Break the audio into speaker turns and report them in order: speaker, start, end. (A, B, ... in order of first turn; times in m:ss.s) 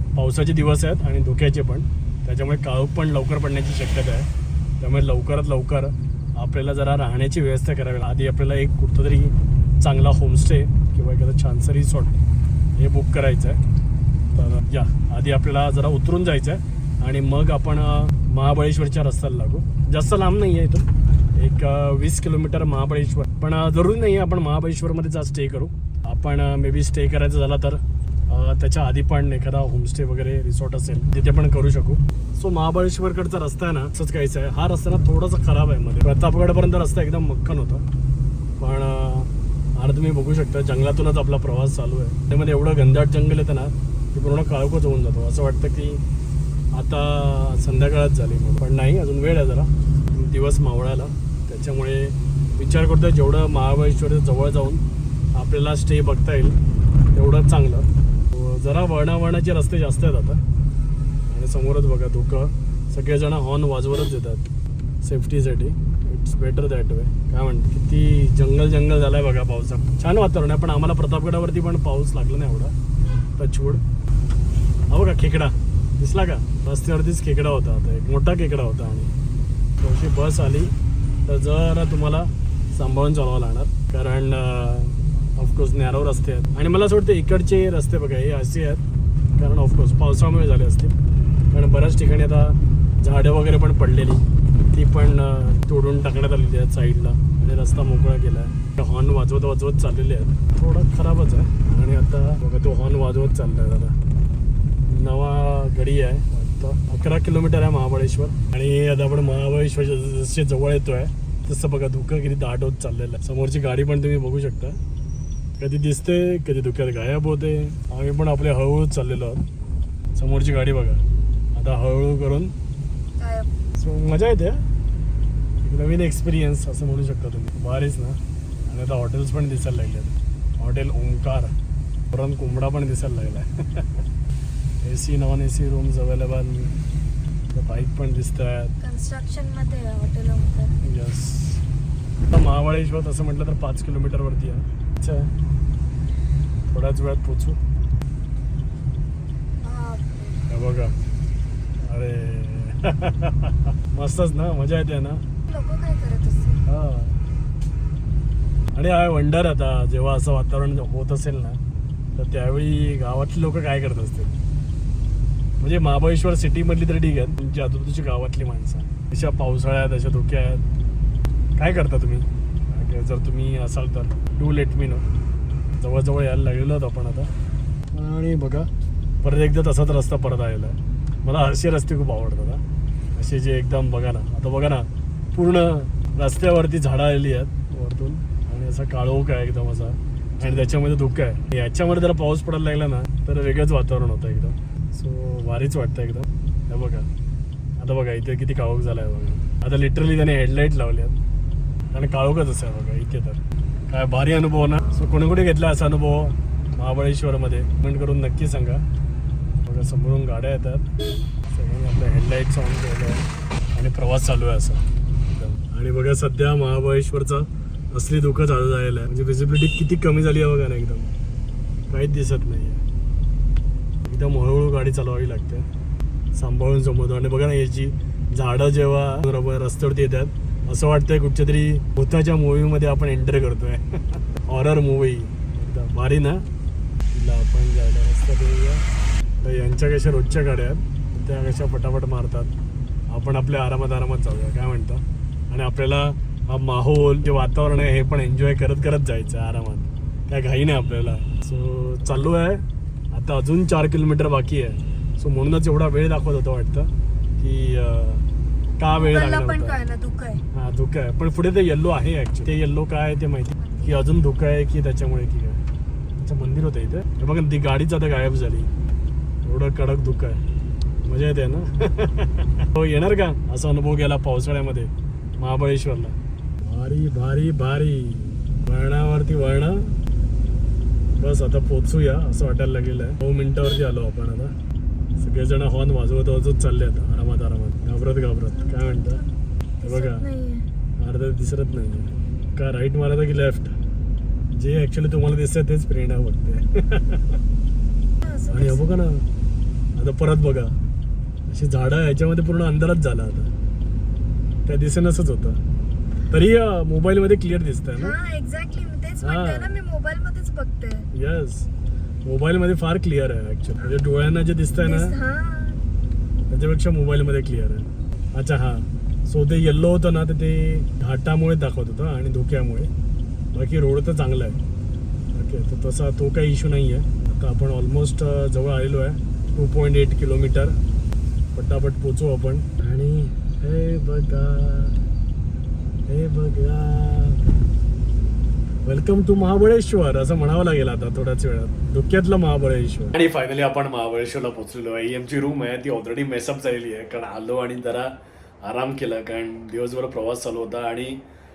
0:00.2-0:04.3 A
0:04.8-0:12.2 A
0:12.8-0:13.6 A
0:14.3-0:37.8 A
0:38.6-0:46.0 A
0:46.7-0:54.8 A
0:55.4-0:56.6 A
0:57.2-1:00.4 A
1:01.3-1:04.5 A
1:05.0-1:12.7 A
1:13.4-1:13.8 A
1:14.9-1:19.1 A
1:19.8-1:20.7 A
1:21.3-1:28.8 A
1:29.4-1:31.0 A
1:31.5-1:44.0 A
1:44.9-1:54.8 A
1:55.6-1:59.4 A
2:00.2-2:01.0 A
2:01.6-2:02.5 A
2:03.2-2:03.5 B
2:03.8-2:04.6 A
2:05.6-2:11.5 A
2:12.1-2:13.9 A
2:14.8-2:16.7 A
2:17.5-2:18.7 A
2:18.8-2:20.8 B
2:20.8-2:21.6 A
2:22.3-2:25.3 A
2:26.7-2:27.6 A
2:29.6-2:30.4 B
2:30.5-2:31.0 A
2:31.8-2:35.2 A
2:35.5-2:36.6 B
2:36.7-2:37.2 A
2:38.7-2:41.6 A
2:42.2-2:44.4 A
2:45.6-2:50.6 A
2:51.6-2:55.0 A
2:55.8-2:57.3 A
2:57.9-2:58.7 A
2:59.2-3:02.6 A
3:03.2-3:17.1 A
3:17.8-3:21.2 A
3:21.9-3:28.8 A
3:29.6-3:30.9 A
3:31.5-3:41.1 A
3:41.9-3:42.8 A
3:44.0-3:45.7 A
3:46.4-3:53.8 A
3:54.4-3:56.4 A
3:57.1-3:58.8 A
3:59.4-4:02.5 A
4:03.1-4:18.3 A
4:18.8-4:19.8 A
4:18.9-4:20.4 B
4:20.5-4:25.6 A
4:23.6-4:24.1 B
4:26.2-4:28.7 A
4:29.5-4:30.4 A
4:31.0-4:39.9 A
4:41.1-4:44.5 A
4:45.1-4:49.2 A
4:48.5-4:50.7 B
4:49.8-4:50.2 A
4:51.0-4:53.8 A
4:54.5-4:57.4 A
4:58.2-4:58.9 B
4:58.5-4:59.3 A
5:00.0-5:00.8 A
5:01.5-5:03.5 A
5:04.7-5:05.6 A
5:06.3-5:08.2 A
5:08.0-5:11.1 B
5:09.2-5:09.8 A
5:11.1-5:11.7 A
5:12.3-5:15.2 A
5:14.8-5:15.8 B
5:16.5-5:22.9 A
5:23.5-5:24.6 A
5:25.3-5:30.8 A
5:31.6-5:35.0 A
5:36.1-5:37.4 A
5:38.8-5:51.2 A